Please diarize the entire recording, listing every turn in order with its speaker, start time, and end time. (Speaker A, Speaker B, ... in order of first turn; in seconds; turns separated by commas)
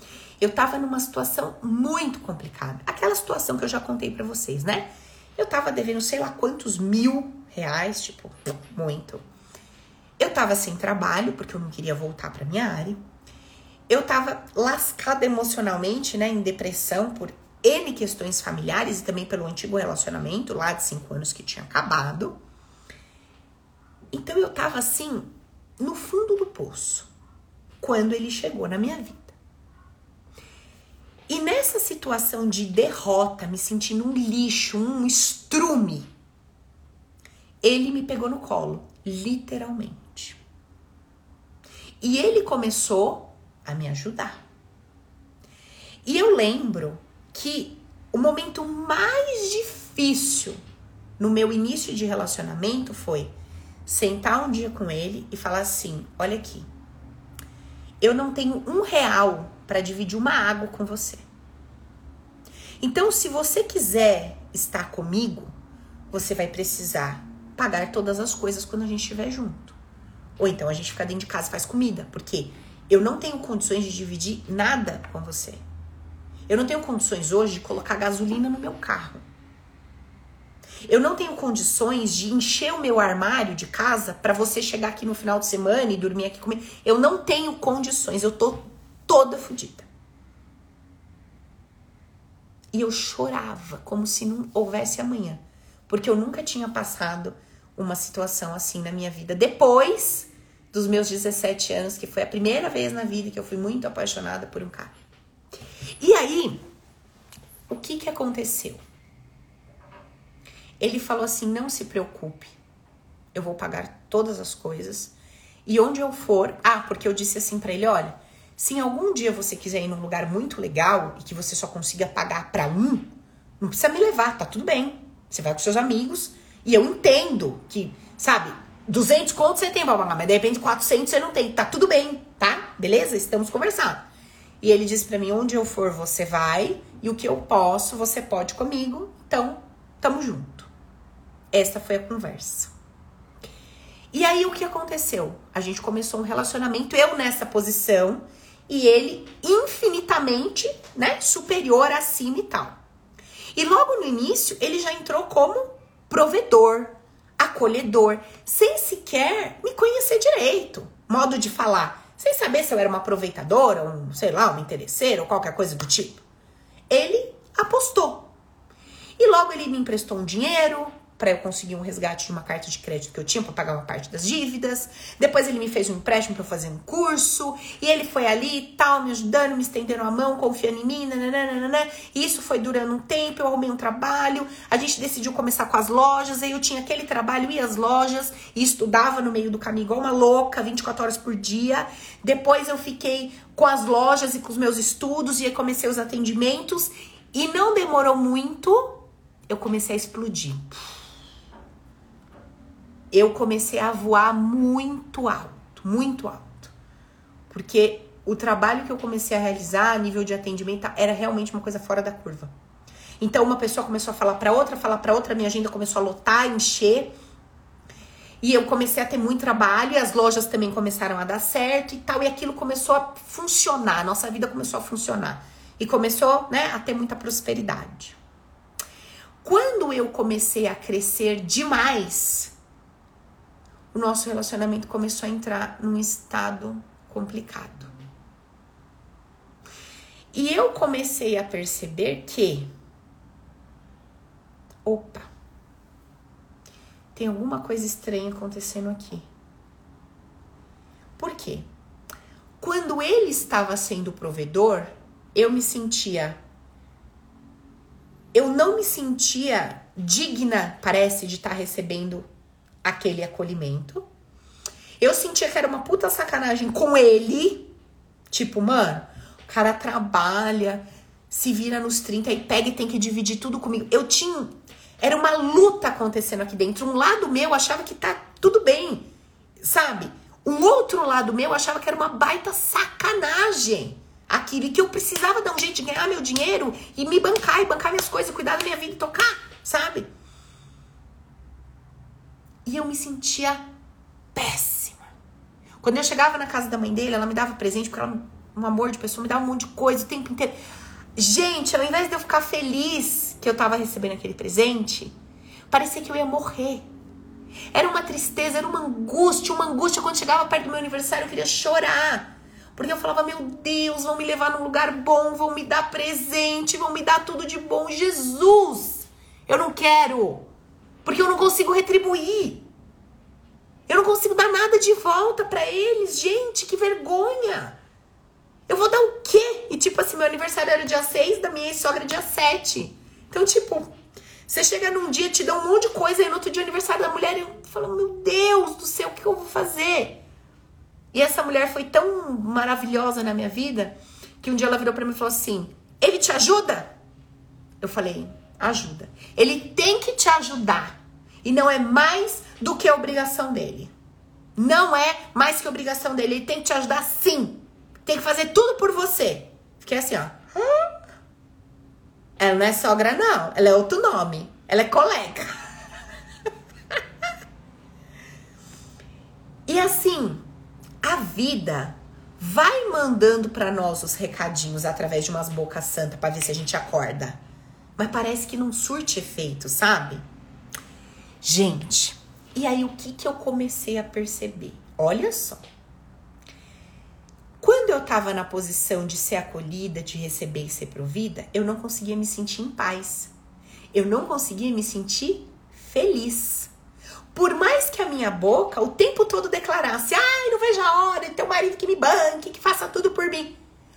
Speaker A: 0.4-9.2, Speaker A: 10.2-13.0, Speaker A: 13.9-22.4, Speaker A: 24.1-27.1, Speaker A: 27.8-29.4, Speaker A: 31.3-36.1, Speaker A: 37.6-40.4, Speaker A: 42.0-44.4, Speaker A: 46.0-50.6, Speaker A: 51.2-53.3, Speaker A: 53.9-56.7, Speaker A: 58.0-61.2, Speaker A: 62.8-65.5, Speaker A: 66.1-69.8, Speaker A: 70.4-75.6, Speaker A: 76.5-79.2, Speaker A: 80.9-89.9, Speaker A: 92.7-104.9, Speaker A: 106.0-106.6, Speaker A: 107.7-108.8, Speaker A: 110.8-112.5, Speaker A: 113.3-115.1, Speaker A: 115.7-134.1, Speaker A: 134.6-140.7, Speaker A: 141.5-142.7, Speaker A: 144.1-152.8, Speaker A: 153.5-166.2, Speaker A: 166.9-168.3, Speaker A: 169.2-200.7, Speaker A: 203.1-206.7, Speaker A: 207.5-212.5, Speaker A: 213.2-217.1, Speaker A: 218.4-228.2, Speaker A: 229.4-232.5, Speaker A: 233.9-237.9, Speaker A: 240.3-242.7, Speaker A: 244.8-245.3, Speaker A: 247.1-249.3, Speaker A: 251.2-251.7, Speaker A: 252.6-256.4, Speaker A: 258.3-262.2, Speaker A: 262.8-264.1, Speaker A: 265.0-267.7, Speaker A: 268.3-279.1, Speaker A: 279.6-290.1, Speaker A: 292.6-293.6, Speaker A: 294.3-295.1, Speaker A: 295.8-300.6, Speaker A: 301.1-305.1, Speaker A: 305.7-306.9, Speaker A: 307.7-320.5, Speaker A: 321.0-322.7, Speaker A: 323.9-327.8, Speaker A: 328.7-333.9, Speaker A: 334.5-340.2, Speaker A: 341.1-346.9, Speaker A: 347.8-353.9, Speaker A: 354.6-360.9, Speaker A: 362.4-365.5, Speaker A: 369.7-370.4, Speaker A: 371.0-377.4, Speaker A: 378.0-380.2, Speaker A: 381.4-385.6, Speaker A: 387.6-393.3, Speaker A: 393.9-396.7, Speaker A: 397.3-403.6